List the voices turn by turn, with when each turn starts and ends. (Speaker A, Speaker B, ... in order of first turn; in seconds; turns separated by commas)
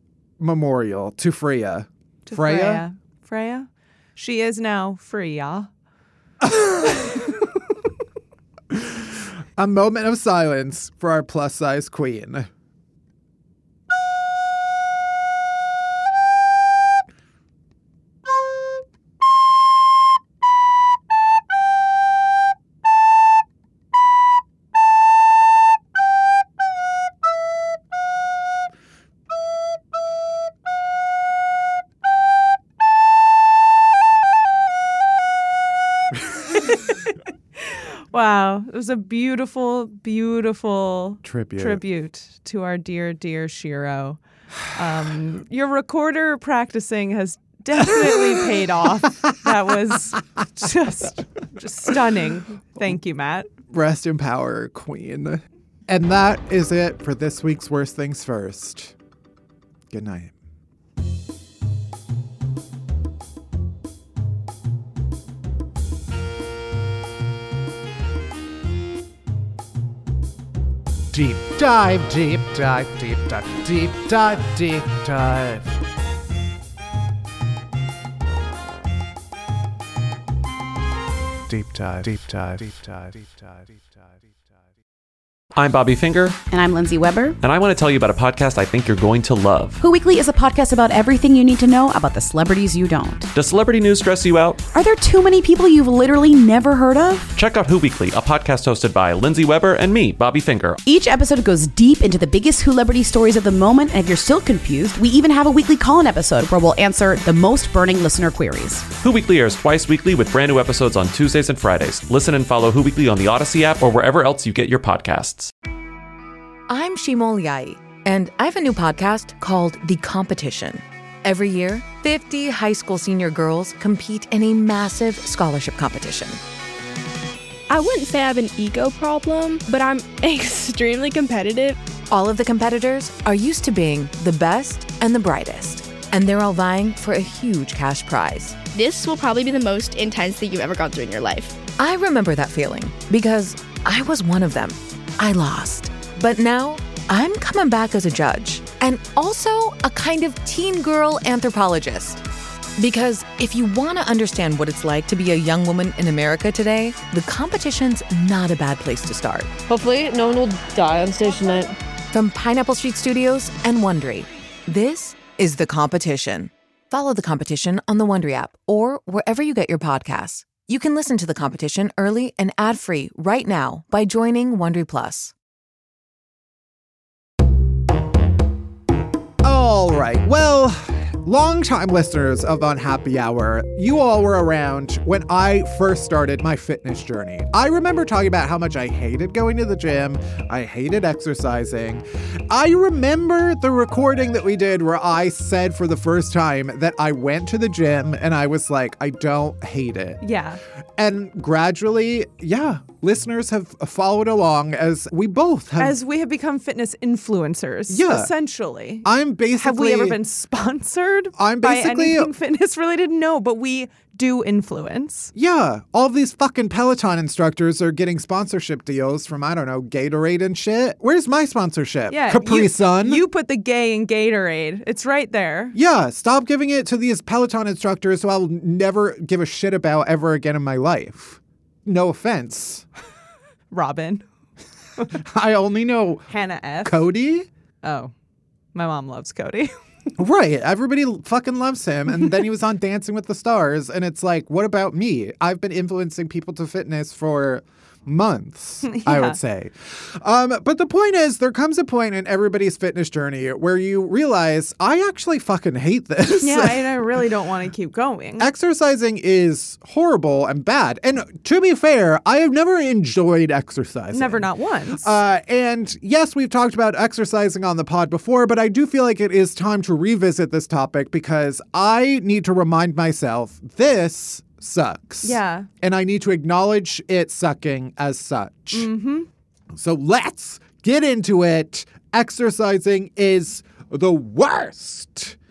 Speaker A: 0.4-2.8, Speaker B: 2.3-5.7, Speaker A: 6.4-7.2, Speaker A: 8.7-12.5, Speaker B: 37.6-44.2, Speaker A: 41.2-41.8, Speaker B: 44.7-53.5, Speaker A: 47.8-48.3, Speaker A: 53.7-58.9, Speaker A: 59.9-60.3, Speaker A: 71.1-75.8, Speaker A: 81.5-83.8, Speaker C: 85.5-86.4, Speaker D: 86.5-87.4, Speaker C: 87.4-89.8, Speaker D: 89.8-93.3, Speaker C: 93.3-94.6, Speaker D: 94.7-97.3, Speaker C: 97.3-100.8, Speaker D: 100.8-108.9, Speaker C: 109.0-115.5, Speaker E: 116.7-126.4, Speaker F: 127.7-131.8, Speaker E: 132.1-138.6, Speaker F: 138.7-141.6, Speaker E: 141.7-152.2, Speaker E: 152.8-159.5, Speaker G: 159.7-161.7, Speaker E: 162.1-175.3, Speaker A: 179.4-200.2, Speaker B: 200.2-200.6, Speaker A: 201.0-206.0, Speaker B: 205.8-209.1, Speaker A: 207.9-208.3, Speaker A: 209.0-210.2, Speaker B: 209.6-215.3, Speaker A: 211.3-212.3, Speaker A: 215.3-223.2, Speaker B: 222.1-225.7, Speaker A: 225.7-232.8, Speaker B: 233.7-234.2, Speaker A: 235.1-236.3, Speaker B: 236.3-237.1, Speaker A: 236.8-237.5, Speaker B: 237.8-238.1, Speaker B: 238.7-239.7, Speaker A: 240.2-257.2, Speaker B: 248.8-249.4, Speaker B: 256.4-258.5, Speaker A: 258.4-278.9, Speaker B: 264.1-265.2, Speaker B: 275.2-275.7, Speaker B: 278.7-279.3, Speaker A: 279.7-285.4